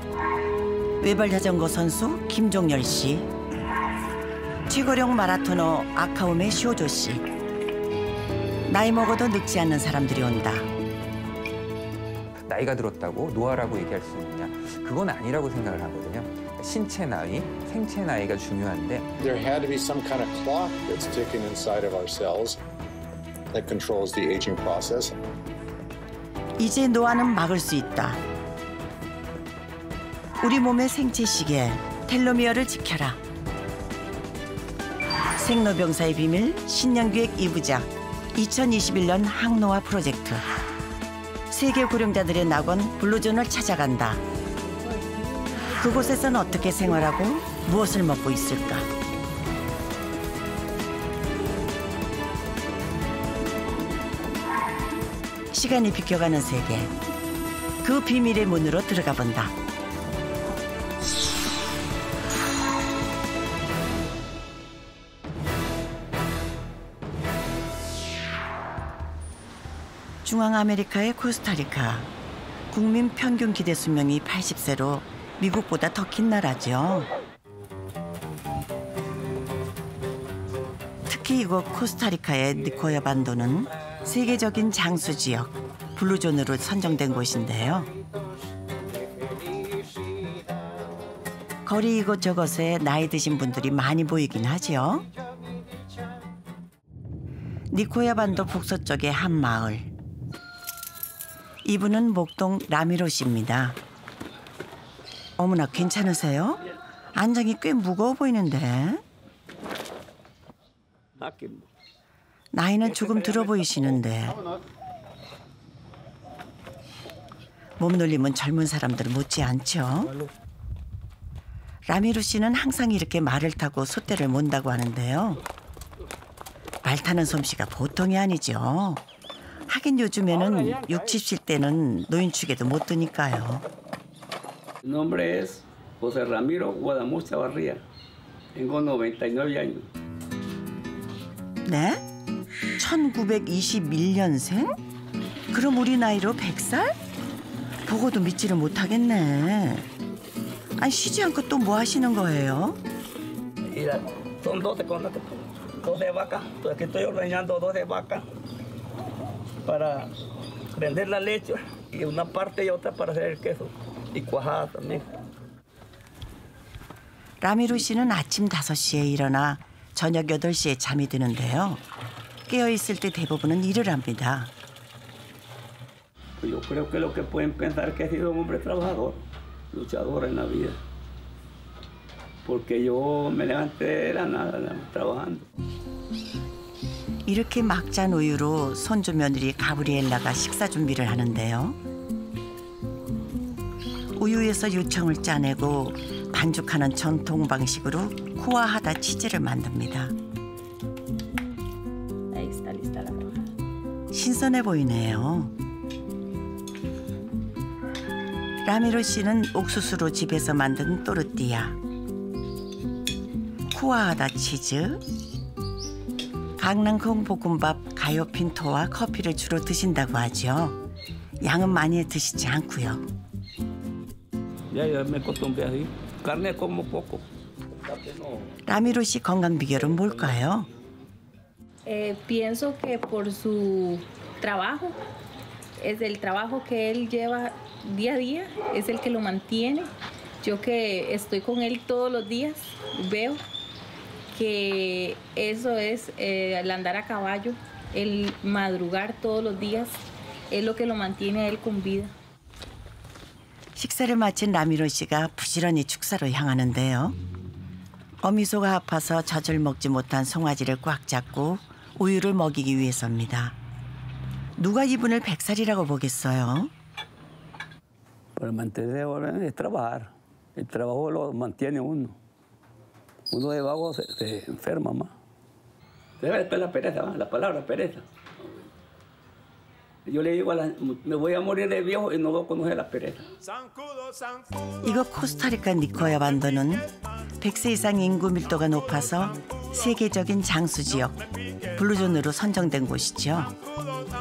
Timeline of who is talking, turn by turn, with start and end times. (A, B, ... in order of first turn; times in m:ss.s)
0:01.0-0:03.3 A
0:04.7-0:07.3 A
0:08.7-0:10.7 A
0:12.4-0:19.1 B
0:19.2-0:22.6 C
0:23.5-0:25.1 C
0:26.6-0:28.2 A
0:30.4-0:33.2 A
0:35.4-0:40.4 A
0:41.5-0:44.2 A
0:45.6-0:48.9 A
0:55.5-0:56.9 A
0:57.8-0:59.5 A
1:10.2-1:12.1 A
1:12.7-1:17.1 A
1:21.1-1:27.9 A
1:31.6-1:35.1 A
1:37.7-1:39.9 A
1:41.6-1:43.8 A
1:45.4-1:46.6 A
1:47.1-1:49.0 A
1:51.2-1:51.7 D
1:52.5-1:54.4 A
1:53.0-1:53.8 D
1:57.8-2:00.1 A
2:01.8-2:05.4 A
2:06.8-2:09.0 A
2:09.7-2:13.6 A
2:14.8-2:17.8 D
2:18.6-2:19.9 D
2:21.6-2:22.0 A
2:22.8-2:24.8 A
2:25.5-2:27.0 A
2:27.9-2:29.8 A
2:30.8-2:32.8 A
2:33.7-2:38.2 D
2:39.6-2:40.1 D
2:40.7-2:45.1 D
2:47.4-2:51.8 A
2:52.5-2:54.5 A
2:56.4-2:59.2 D
2:59.7-3:00.8 D
3:02.4-3:05.4 D
3:07.2-3:11.8 A
3:14.2-3:20.1 A
3:22.3-3:23.5 E
3:24.1-3:25.5 A
3:28.6-3:31.8 A
3:33.7-3:35.0 A
3:36.6-3:40.8 A
3:41.4-3:43.0 A
3:44.7-3:48.5 D
3:48.6-3:50.7 A
3:49.9-3:50.4 D
3:51.8-3:55.0 E
3:55.8-3:59.9 E
4:00.4-4:03.4 E
4:04.3-4:12.1 E
4:13.8-4:17.2 A
4:18.2-4:23.6 A
4:24.6-4:26.7 A
4:28.4-4:32.2 D
4:33.3-4:35.1 D
4:36.2-4:38.0 D
4:40.0-4:43.3 D
4:44.8-4:53.6 A